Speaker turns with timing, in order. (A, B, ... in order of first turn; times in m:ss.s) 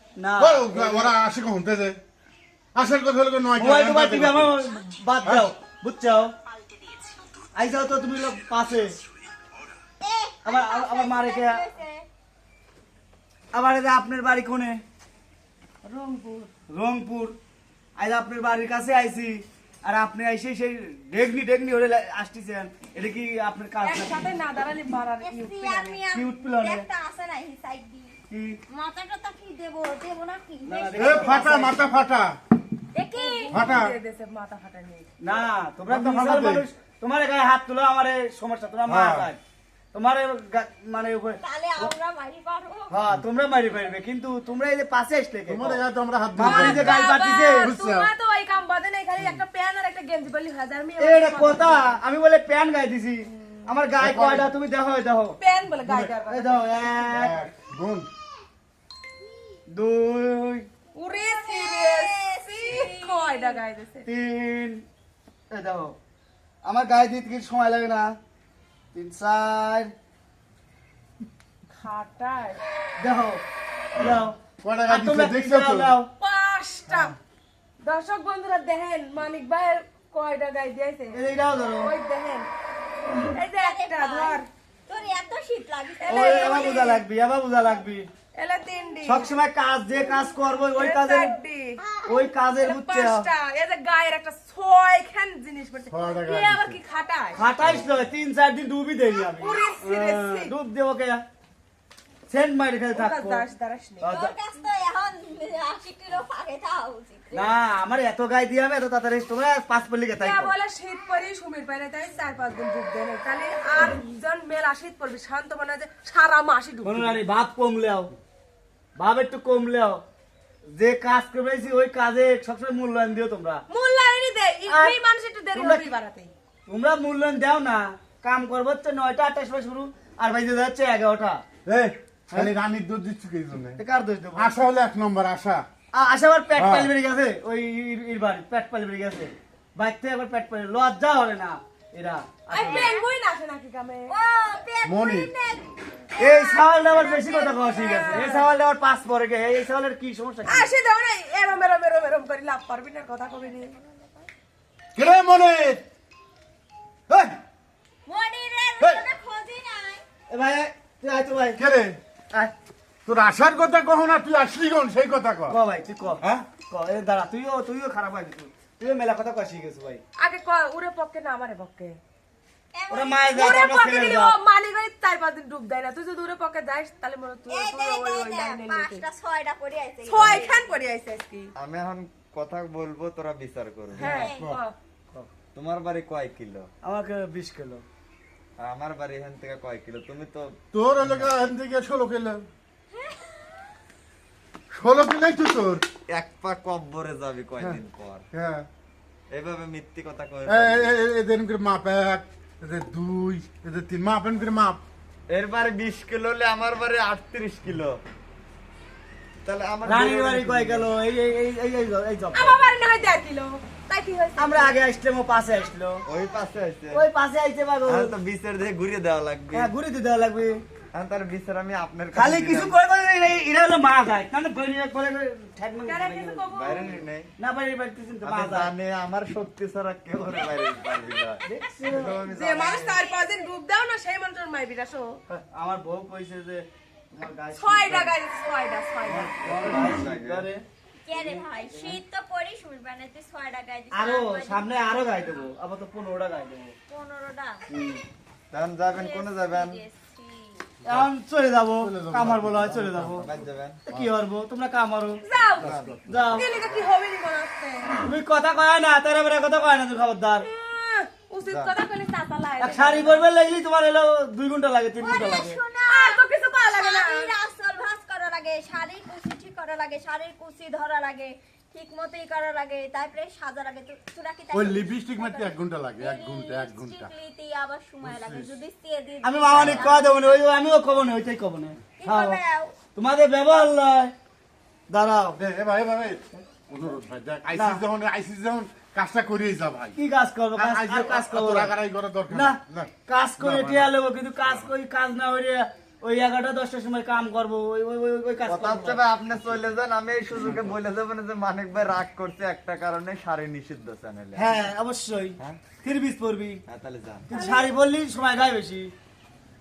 0:00.2-0:01.1 A
0:00.4-0:02.0 B
0:02.8-0:04.6 B
0:03.6-0:06.3 A
0:07.6-0:09.0 A
0:10.0-0:12.0 C
0:10.4-0:11.6 A
0:13.5-0:14.8 A
0:15.8-0:17.4 A
0:18.0-0:24.3 A
0:23.8-0:26.0 D
0:25.2-0:28.2 C
0:26.1-0:26.8 A
0:28.3-0:28.6 A
0:28.7-0:31.4 C
0:30.6-0:31.8 A
0:31.0-0:32.4 B
0:32.9-0:33.6 C
0:33.2-0:35.1 D
0:33.5-0:34.0 B
0:35.2-0:39.4 A
0:35.9-0:36.7 B
0:38.9-0:39.3 B
0:39.9-0:41.9 A
0:41.4-0:43.0 C
0:42.9-0:45.8 A
0:45.5-0:48.1 B
0:46.4-0:47.7 A
0:46.4-0:52.0 D
0:51.0-0:55.4 A
0:54.0-0:54.5 B
0:55.4-0:57.0 D
0:55.8-0:56.1 B
0:56.3-0:57.5 A
0:57.1-0:58.1 B
0:59.7-1:00.7 A
1:00.9-1:04.1 D
1:01.2-1:03.6 C
1:04.0-1:04.8 A
1:05.5-1:06.0 A
1:06.6-1:08.2 A
1:08.9-1:09.9 A
1:11.7-1:12.6 D
1:13.0-1:13.4 A
1:14.0-1:14.4 A
1:14.6-1:16.0 B
1:14.9-1:16.1 A
1:16.2-1:17.2 D
1:17.8-1:21.2 D
1:21.1-1:21.9 A
1:21.8-1:22.5 D
1:23.3-1:24.5 D
1:23.5-1:26.9 C
1:26.0-1:27.0 D
1:26.1-1:28.1 A
1:28.3-1:29.3 D
1:29.1-1:31.4 A
1:30.4-1:31.8 D
1:31.9-1:32.2 C
1:32.0-1:33.3 A
1:32.6-1:37.4 D
1:35.9-1:36.8 B
1:37.3-1:41.2 A
1:39.3-1:40.5 D
1:42.3-1:43.4 A
1:42.9-1:44.1 D
1:44.0-1:44.3 A
1:44.1-1:47.5 C
1:47.3-1:50.5 A
1:50.2-1:57.2 D
1:56.8-1:58.1 A
1:59.0-2:00.0 A
2:00.7-2:03.6 A
2:03.7-2:06.3 D
2:04.7-2:05.0 A
2:05.5-2:05.8 A
2:06.7-2:11.4 A
2:11.7-2:13.8 B
2:13.8-2:14.5 A
2:14.4-2:15.6 B
2:15.9-2:23.0 A
2:16.6-2:16.9 B
2:22.5-2:24.2 D
2:22.6-2:23.1 C
2:24.1-2:28.2 C
2:24.8-2:25.3 B
2:26.2-2:30.7 A
2:27.7-2:28.5 D
2:30.5-2:33.8 D
2:35.0-2:35.8 B
2:37.1-2:37.4 A
2:38.1-2:40.0 C
2:40.3-2:41.6 A
2:41.6-2:42.0 B
2:43.1-2:45.6 B
2:45.5-2:50.0 A
2:50.2-2:52.0 D
2:52.7-2:53.4 C
2:52.9-2:54.4 A
2:53.3-2:59.0 D
2:57.5-3:00.7 C
3:00.0-3:01.5 D
3:01.6-3:04.2 E
3:04.0-3:04.7 D
3:04.0-3:04.5 C
3:05.5-3:06.7 E
3:06.8-3:07.8 A
3:08.6-3:10.6 E
3:10.7-3:12.4 B
3:13.0-3:13.4 C
3:14.7-3:15.9 B
3:16.1-3:18.2 E
3:18.3-3:18.7 B
3:19.3-3:20.9 E
3:20.5-3:24.8 B
3:25.3-3:28.0 E
3:29.4-3:30.9 E
3:29.8-3:32.6 A
3:32.3-3:34.8 D
3:34.4-3:36.0 A
3:36.1-3:37.0 E
3:36.9-3:38.1 A
3:37.9-3:39.7 E
3:39.5-3:40.6 A
3:40.9-3:42.8 E
3:42.1-3:46.4 A
3:45.8-3:47.1 D
3:46.5-3:47.3 E
3:47.4-3:48.7 A
3:48.2-3:53.0 E
3:51.4-3:52.2 A
3:52.0-3:55.2 D
3:55.3-3:58.1 A
3:57.5-3:59.4 D
3:59.1-4:00.6 A
3:59.4-4:00.5 E
4:01.0-4:05.1 C
4:03.9-4:06.8 A
4:06.9-4:07.6 C
4:07.7-4:08.0 A
4:08.5-4:09.8 E
4:08.9-4:10.7 C
4:10.8-4:11.1 B
4:10.8-4:13.3 A
4:11.8-4:14.1 B
4:13.2-4:13.8 E
4:13.9-4:15.2 A
4:15.2-4:15.8 D
4:15.5-4:16.9 E
4:15.6-4:16.0 B
4:16.1-4:16.5 A
4:16.4-4:18.0 D
4:18.0-4:20.5 A
4:20.4-4:23.2 D
4:21.4-4:21.8 E
4:22.6-4:25.6 A
4:25.0-4:40.2 C
4:25.9-4:27.3 D
4:34.5-4:37.1 B
4:38.0-4:38.5 B
4:39.2-4:42.4 A
4:39.6-4:39.9 B
4:42.0-4:42.8 C
4:43.0-4:44.1 A
4:44.9-4:45.4 A
4:45.4-4:50.0 B
4:47.6-4:47.8 A
4:50.0-4:51.7 A
4:50.6-4:53.9 B
4:52.3-4:59.0 A
4:58.5-5:04.7 E
5:04.4-5:06.6 A
5:06.7-5:07.3 E
5:07.3-5:08.9 A
5:07.3-5:07.7 D